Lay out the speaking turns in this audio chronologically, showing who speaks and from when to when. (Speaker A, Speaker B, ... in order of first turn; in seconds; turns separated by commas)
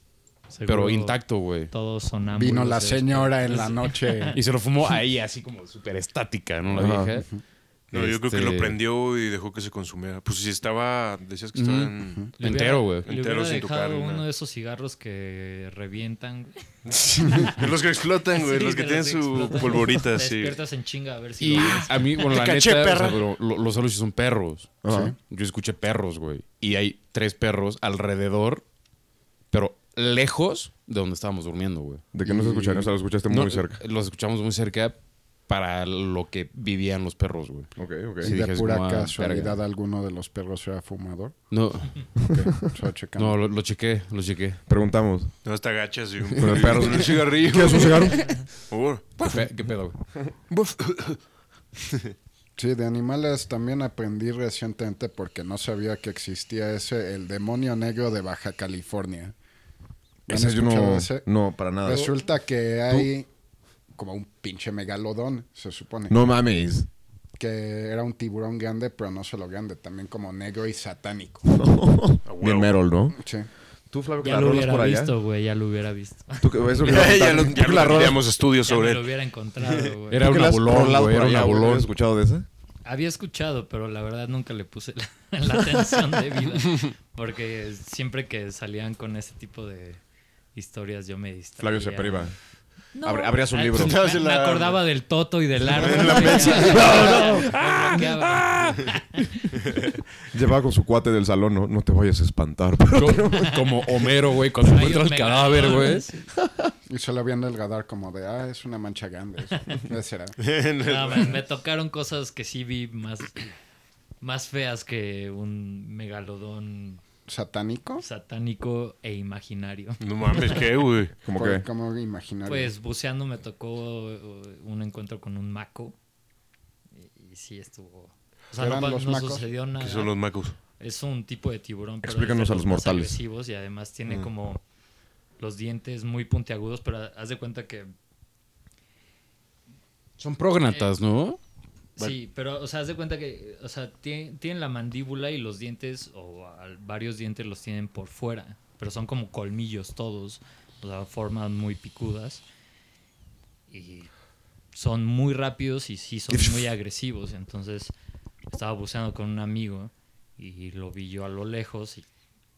Speaker A: 0.5-4.4, Speaker B: 0.7-1.7, Speaker C: 2.3-4.4, Speaker B: 4.3-7.4, Speaker D: 6.7-7.1, Speaker C: 7.1-7.4, Speaker B: 7.9-8.8, Speaker E: 7.9-12.3, Speaker B: 11.6-13.1, Speaker A: 12.4-16.6, Speaker E: 13.0-14.2, Speaker E: 16.9-20.6, Speaker A: 17.3-17.5, Speaker A: 18.3-21.9, Speaker B: 21.4-28.6, Speaker E: 22.2-23.2, Speaker D: 24.8-25.1, Speaker C: 24.9-25.2, Speaker B: 29.5-32.1, Speaker D: 32.1-33.8, Speaker C: 32.2-32.9, Speaker B: 33.3-39.6, Speaker D: 37.8-38.3, Speaker C: 38.2-43.4, Speaker B: 41.5-42.1, Speaker D: 42.2-42.5, Speaker B: 43.2-44.6, Speaker D: 44.7-45.3, Speaker E: 45.4-49.3, Speaker B: 46.3-47.1, Speaker D: 46.4-48.6, Speaker B: 49.2-50.0, Speaker E: 50.5-51.2, Speaker C: 52.6-59.3, Speaker C: 60.3-61.3, Speaker D: 60.3-62.2, Speaker C: 61.8-63.3, Speaker C: 64.0-66.2, Speaker D: 66.1-66.9, Speaker C: 67.4-71.5, Speaker D: 71.5-73.2, Speaker E: 72.2-72.8, Speaker C: 73.1-73.5, Speaker D: 73.9-75.1, Speaker A: 74.2-77.2, Speaker D: 76.4-78.3, Speaker E: 76.8-79.9, Speaker A: 78.6-80.3, Speaker B: 80.1-81.9, Speaker D: 80.2-82.5, Speaker A: 82.8-90.0, Speaker A: 90.5-92.4, Speaker D: 91.6-92.4, Speaker A: 92.9-99.6, Speaker D: 93.0-94.0, Speaker E: 93.7-94.9, Speaker E: 95.8-97.0, Speaker D: 95.8-97.9, Speaker B: 96.7-98.9, Speaker D: 100.3-103.8, Speaker B: 102.9-106.1, Speaker A: 103.3-103.6, Speaker A: 104.6-106.3, Speaker C: 106.9-110.4, Speaker E: 110.4-111.4, Speaker A: 110.8-113.5, Speaker A: 114.2-117.0, Speaker C: 117.3-118.0, Speaker A: 118.0-120.6, Speaker E: 120.0-121.2, Speaker D: 121.2-121.7, Speaker C: 121.3-122.7, Speaker A: 122.5-126.0, Speaker A: 126.9-130.2, Speaker C: 128.5-129.5, Speaker E: 129.8-130.6, Speaker A: 130.8-134.6, Speaker D: 132.0-133.2, Speaker A: 135.4-137.9, Speaker B: 140.2-141.4, Speaker A: 142.0-152.4, Speaker A: 153.7-154.1, Speaker A: 154.7-157.9, Speaker D: 156.3-156.7, Speaker A: 158.5-162.1